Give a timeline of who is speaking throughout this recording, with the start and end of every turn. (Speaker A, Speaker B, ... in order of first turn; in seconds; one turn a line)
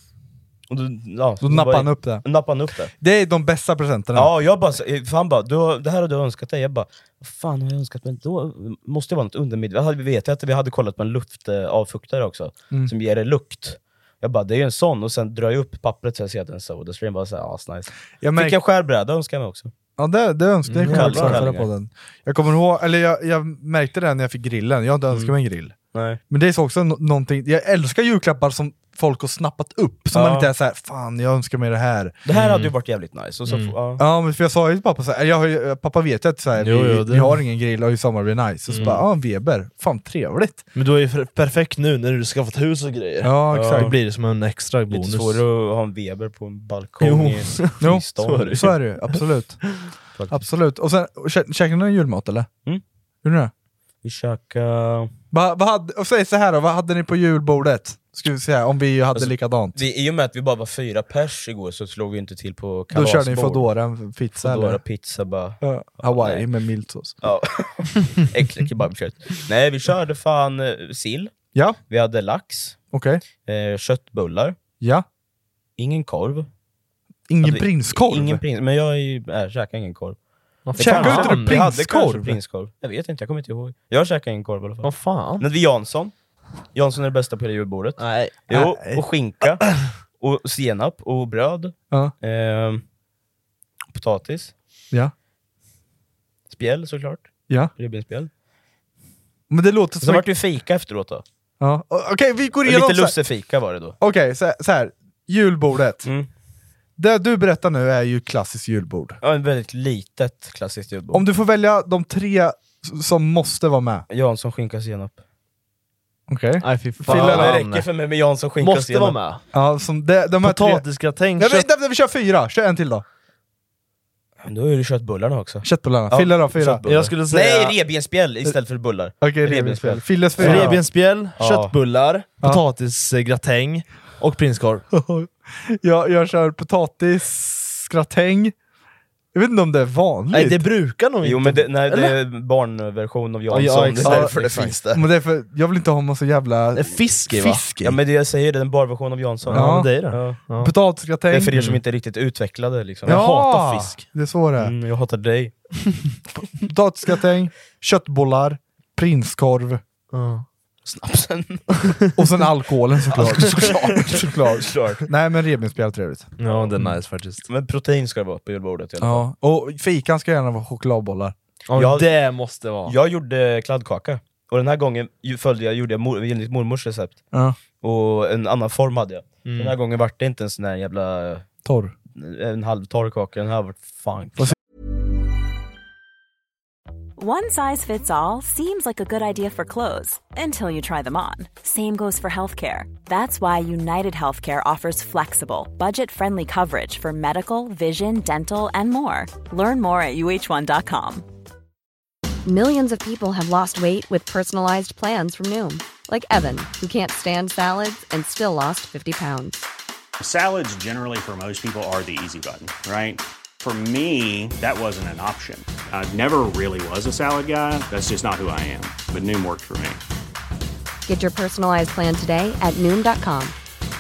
Speaker A: 0.7-2.9
Speaker B: 1.4-2.3
Speaker B: 2.9-4.3
Speaker A: 4.2-19.7
Speaker B: 18.2-18.6
Speaker B: 20.0-25.8
Speaker C: 20.7-21.5
Speaker A: 20.9-21.7
Speaker A: 25.9-26.2
Speaker B: 26.3-32.2
Speaker A: 30.2-30.4
Speaker A: 32.2-34.0
Speaker C: 32.3-32.7
Speaker C: 33.5-33.8
Speaker B: 34.0-40.7
Speaker C: 36.6-37.4
Speaker C: 38.7-39.0
Speaker C: 40.7-45.4
Speaker B: 43.2-44.0
Speaker A: 43.5-44.0
Speaker A: 44.9-48.7
Speaker C: 47.0-49.2
Speaker B: 47.8-49.7
Speaker A: 50.2-50.4
Speaker B: 50.3-52.5
Speaker B: 53.2-53.5
Speaker A: 54.0-55.1
Speaker B: 55.3-59.8
Speaker A: 59.1-63.7
Speaker B: 62.9-64.8
Speaker A: 64.3-66.5
Speaker B: 65.6-67.2
Speaker A: 67.2-71.3
Speaker B: 71.5-71.8
Speaker A: 71.9-72.8
Speaker B: 72.9-73.2
Speaker A: 73.4-74.6
Speaker B: 74.8-75.1
Speaker A: 75.8-76.5
Speaker B: 77.3-78.4
Speaker A: 77.4-80.2
Speaker C: 80.7-81.8
Speaker A: 80.7-86.1
Speaker B: 80.8-82.4
Speaker C: 84.8-85.5
Speaker A: 86.7-92.8
Speaker C: 88.0-88.4
Speaker B: 88.5-89.0
Speaker A: 93.9-94.5
Speaker A: 96.5-98.3
Speaker B: 99.5-100.3
Speaker A: 100.0-101.2
Speaker B: 101.6-103.2
Speaker A: 102.7-104.0
Speaker B: 104.0-106.1
Speaker B: 107.0-109.2
Speaker A: 109.2-111.2
Speaker B: 111.1-114.1
Speaker A: 114.1-115.2
Speaker B: 116.3-117.6
Speaker C: 116.6-117.9
Speaker A: 117.1-119.2
Speaker C: 118.6-119.4
Speaker B: 119.5-123.0
Speaker C: 120.4-121.7
Speaker A: 124.4-131.8
Speaker B: 125.6-126.8
Speaker C: 126.8-127.8
Speaker B: 129.2-130.8
Speaker C: 130.4-134.8
Speaker B: 134.9-138.6
Speaker B: 139.3-140.7
Speaker C: 140.3-142.2
Speaker A: 141.2-145.0
Speaker C: 143.5-144.8
Speaker B: 144.0-147.9
Speaker C: 146.8-147.9
Speaker A: 147.8-150.4
Speaker C: 149.5-150.7
Speaker B: 149.5-151.5
Speaker A: 151.3-153.9
Speaker C: 151.5-151.8
Speaker C: 153.1-154.0
Speaker B: 153.1-154.7
Speaker A: 154.6-155.6
Speaker B: 156.6-159.8
Speaker C: 160.1-160.4
Speaker A: 160.8-161.9
Speaker B: 162.2-167.0
Speaker A: 163.1-165.0
Speaker C: 163.1-164.2
Speaker C: 166.4-167.4
Speaker A: 167.5-169.3
Speaker B: 169.0-171.3
Speaker C: 171.7-172.9
Speaker A: 171.8-172.1
Speaker A: 172.8-177.2
Speaker B: 177.3-177.6
Speaker A: 177.8-181.5
Speaker C: 179.4-179.8
Speaker B: 181.7-181.9
Speaker A: 182.2-184.6
Speaker D: 187.2-201.2
Speaker E: 202.5-209.7
Speaker F: 210.2-220.0
Speaker E: 221.1-223.6